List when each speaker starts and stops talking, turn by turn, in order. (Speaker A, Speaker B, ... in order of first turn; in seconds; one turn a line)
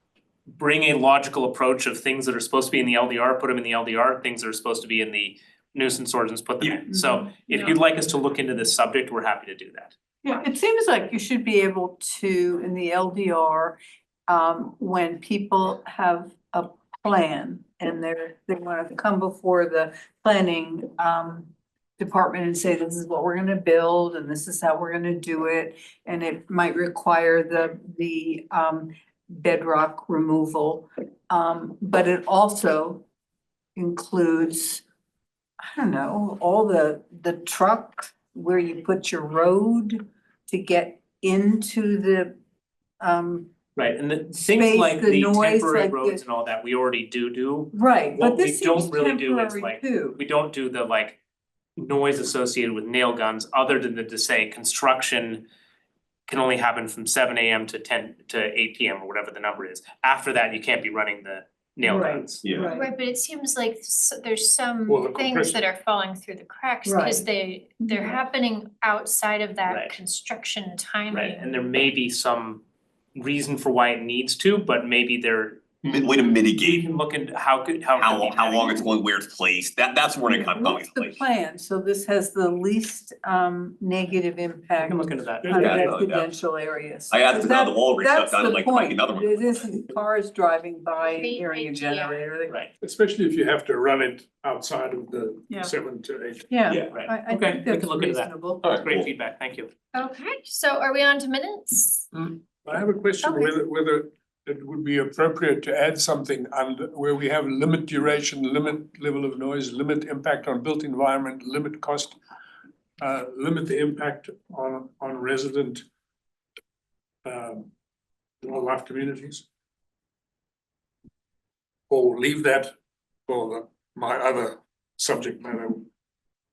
Speaker A: 0.6-9.9
Speaker B: 10.2-33.0
Speaker B: 33.8-34.8
Speaker B: 35.6-42.3
Speaker B: 43.0-43.5
Speaker A: 43.8-51.2
Speaker B: 44.3-46.2
Speaker B: 47.7-50.2
Speaker A: 51.8-55.5
Speaker A: 56.3-62.4
Speaker B: 61.8-62.9
Speaker C: 62.4-62.7
Speaker D: 62.8-71.7
Speaker E: 64.9-65.6
Speaker B: 66.8-67.2
Speaker B: 67.8-68.1
Speaker A: 69.7-70.0
Speaker A: 71.1-72.6
Speaker A: 73.2-76.0
Speaker C: 75.8-76.8
Speaker A: 76.6-78.9
Speaker C: 78.0-81.2
Speaker B: 80.3-92.6
Speaker A: 84.8-85.9
Speaker E: 85.4-85.8
Speaker C: 85.5-86.3
Speaker C: 87.1-89.7
Speaker D: 91.0-92.2
Speaker E: 92.8-96.5
Speaker B: 96.5-98.6
Speaker A: 96.9-99.7
Speaker C: 98.6-99.1
Speaker D: 99.9-102.1
Speaker E: 102.1-112.2
Speaker D: 103.2-103.5
Speaker E: 113.0-115.8
Speaker E: 117.2-117.7
Speaker E: 118.4-119.5
Speaker E: 121.9-122.7
Speaker E: 123.3-125.9